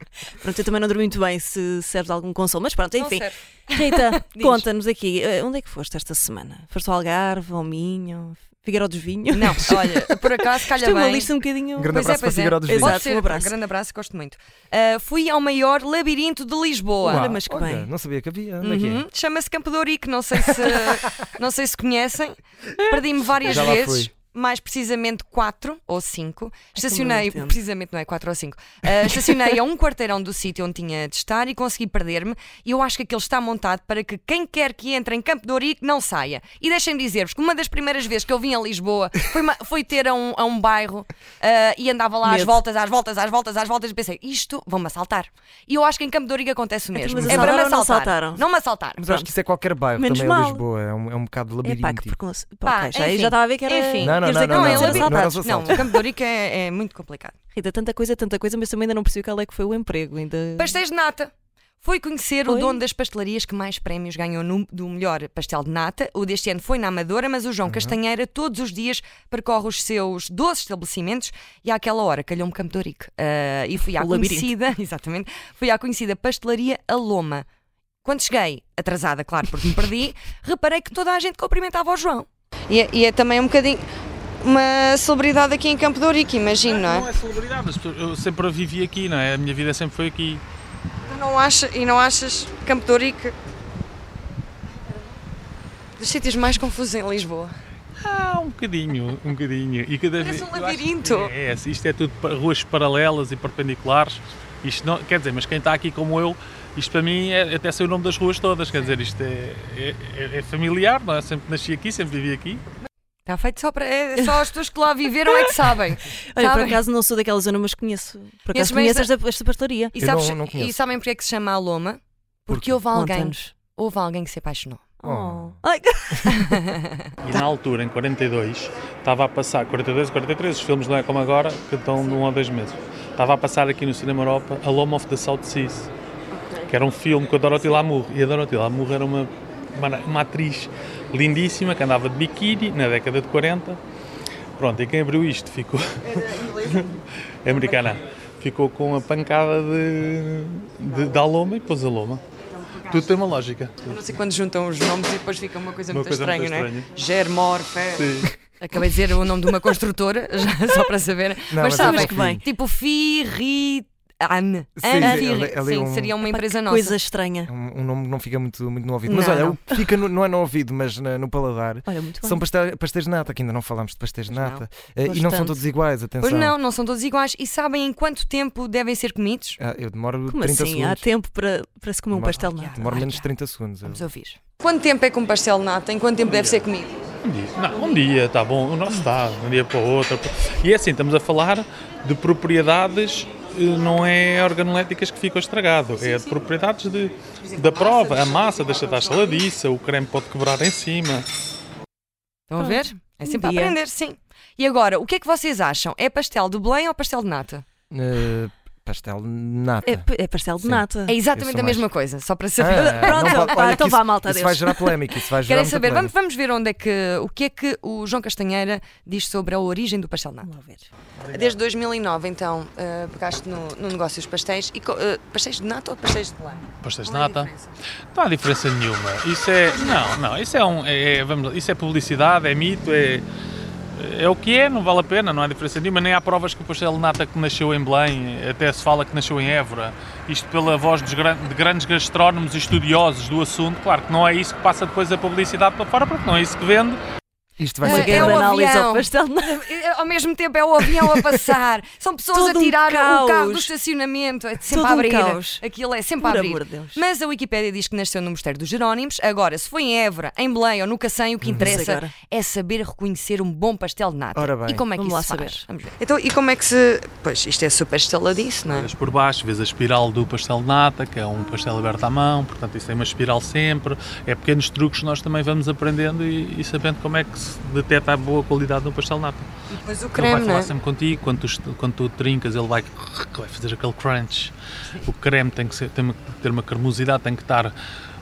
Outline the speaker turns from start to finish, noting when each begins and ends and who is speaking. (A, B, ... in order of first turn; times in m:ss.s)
0:00.4-0:09.9 A
0:03.0-0:04.6 B
0:09.3-0:11.3 B
0:10.7-0:13.5 A
0:11.8-0:13.0 C
0:11.9-0:17.3 B
0:17.0-0:17.9 A
0:17.0-0:19.0 C
0:18.6-0:49.0 B
0:23.4-0:24.1 C
0:26.7-0:27.6 A
0:42.2-0:42.6 A
0:46.9-0:48.4 A
0:47.2-0:47.6 C
0:49.0-0:49.3 A
0:49.0-0:52.2 C
0:50.0-0:50.6 A
0:51.6-0:55.9 A
0:52.6-0:57.4 B
0:54.0-0:55.8 C
0:57.5-1:00.8 A
1:00.6-1:17.4 B
1:02.4-1:02.8 A
1:07.6-1:08.0 C
1:13.8-1:14.5 A
1:18.0-1:23.8 B
1:24.4-1:27.1 B
1:26.6-1:30.4 D
1:31.1-1:33.4 B
1:36.0-1:37.5 B
1:38.0-1:52.6 D
1:40.2-1:41.3 B
1:53.2-1:56.8 B
1:55.2-1:55.6 A
1:56.3-2:00.0 A
1:58.5-1:59.1 B
2:00.0-2:04.9 B
2:00.0-2:00.8 C
2:02.5-2:02.8 C
2:02.9-2:03.5 A
2:05.0-2:06.6 A
2:05.0-2:05.6 C
2:06.3-2:06.9 B
2:07.2-2:15.9 D
2:16.6-2:23.8 D
2:24.6-2:32.2 D
2:26.1-2:26.9 B
2:27.5-2:27.8 B
2:32.8-2:34.0 D
2:33.8-2:47.0 B
2:35.9-2:36.9 D
2:37.9-2:38.3 D
2:41.5-2:42.4 C
2:41.6-2:42.4 A
2:44.8-2:46.1 C
2:45.0-2:45.3 A
2:46.2-2:47.5 A
2:47.5-2:56.6 C
2:49.0-2:49.6 B
2:51.8-2:52.4 A
2:54.3-2:55.6 B
2:56.2-2:59.6 B
2:59.6-3:01.0 C
3:00.3-3:03.0 A
3:02.1-3:04.0 C
3:02.5-3:03.3 B
3:03.8-3:06.9 B
3:06.2-3:06.6 D
3:07.2-3:21.3 D
3:22.5-3:27.6 B
3:22.6-3:23.8 A
3:27.9-3:30.1 C
3:29.8-3:31.2 A
3:30.6-3:31.9 C
3:31.1-3:33.8 B
3:32.6-3:36.1 C
3:32.7-3:34.9 A
3:35.4-3:40.5 B
3:40.4-3:40.9 A
3:41.2-3:47.7 B
3:46.8-3:47.5 D
3:48.1-3:53.2 D
3:53.9-4:07.0 D
4:07.6-4:08.5 C
4:07.8-4:09.6 A
4:07.8-4:28.9 B
4:12.3-4:13.7 A
4:14.7-4:15.6 A
4:16.2-4:17.0 A
4:21.4-4:21.8 C
4:21.5-4:22.1 A
4:24.3-4:24.8 C
4:24.9-4:25.6 A
4:28.7-4:39.5 D
4:39.7-4:40.7 B
4:40.1-4:44.5 D
4:45.0-4:47.7 D